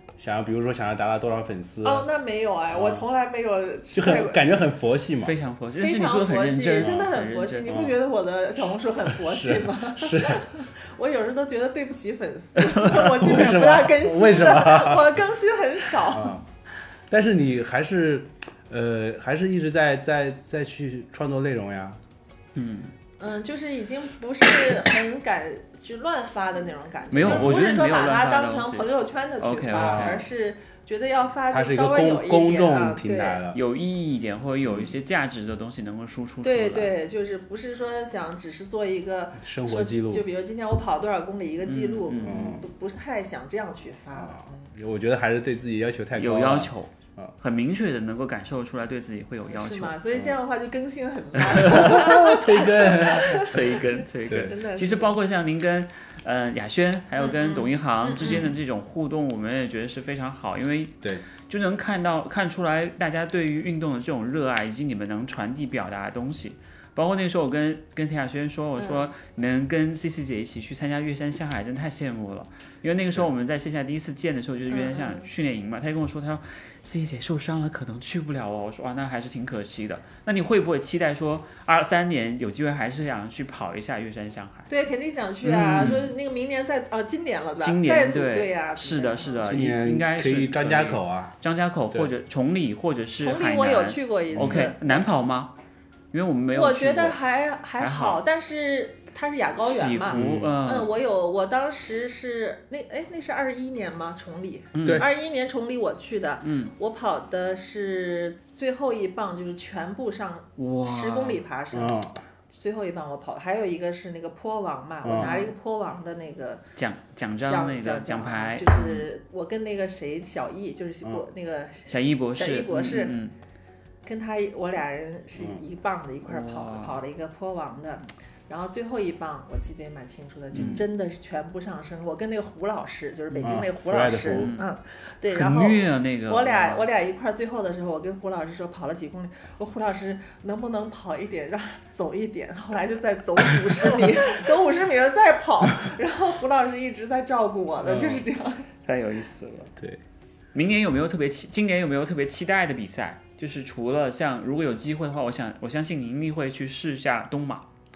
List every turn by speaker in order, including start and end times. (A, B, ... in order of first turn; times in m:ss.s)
0:00.2-0:02.1 A
0:01.8-0:04.4 B
0:02.7-0:03.0 A
0:04.0-0:05.4 A
0:05.2-0:07.8 C
0:05.8-0:16.4 B
0:06.8-0:07.1 A
0:07.7-0:07.9 A
0:09.1-0:10.4 A
0:12.8-0:13.1 C
0:13.2-0:15.1 A
0:16.0-0:16.5 A
0:17.1-0:22.0 A
0:22.6-0:22.9 C
0:23.2-0:33.4 B
0:27.1-0:28.9 C
0:27.2-0:27.6 A
0:29.4-0:30.2 C
0:29.8-0:30.3 A
0:31.5-0:33.6 A
0:33.5-0:37.0 C
0:34.7-0:34.9 A
0:36.4-0:44.7 B
0:39.4-0:40.3 A
0:41.7-0:42.5 C
0:42.2-0:42.7 A
0:44.2-0:47.3 A
0:46.2-0:50.0 C
0:49.5-0:55.2 B
0:51.4-1:24.7 C
0:51.7-0:53.6 A
0:54.3-0:54.6 A
0:57.2-0:58.5 B
1:08.8-1:09.1 B
1:14.7-1:15.3 B
1:24.7-1:29.7 B
1:25.4-1:26.1 C
1:27.6-1:35.5 C
1:29.4-1:31.4 A
1:33.2-1:35.0 B
1:34.4-1:34.6 A
1:36.1-1:37.2 C
1:36.5-1:56.6 B
1:37.8-1:38.2 C
1:39.6-1:40.9 C
1:40.1-1:40.6 A
1:44.7-1:45.1 C
1:46.4-1:46.7 C
1:50.6-1:51.4 C
1:51.7-1:52.2 A
1:55.0-1:55.4 A
1:55.1-1:55.5 C
1:56.8-1:59.1 C
1:57.4-2:03.2 B
2:01.9-2:03.3 C
2:04.1-2:28.7 B
2:05.4-2:05.6 A
2:06.3-2:07.0 C
2:10.5-2:10.8 C
2:13.4-2:14.5 A
2:14.3-2:14.7 C
2:15.3-2:16.9 C
2:27.8-2:28.2 A
2:28.8-2:29.7 C
2:30.5-2:37.7 C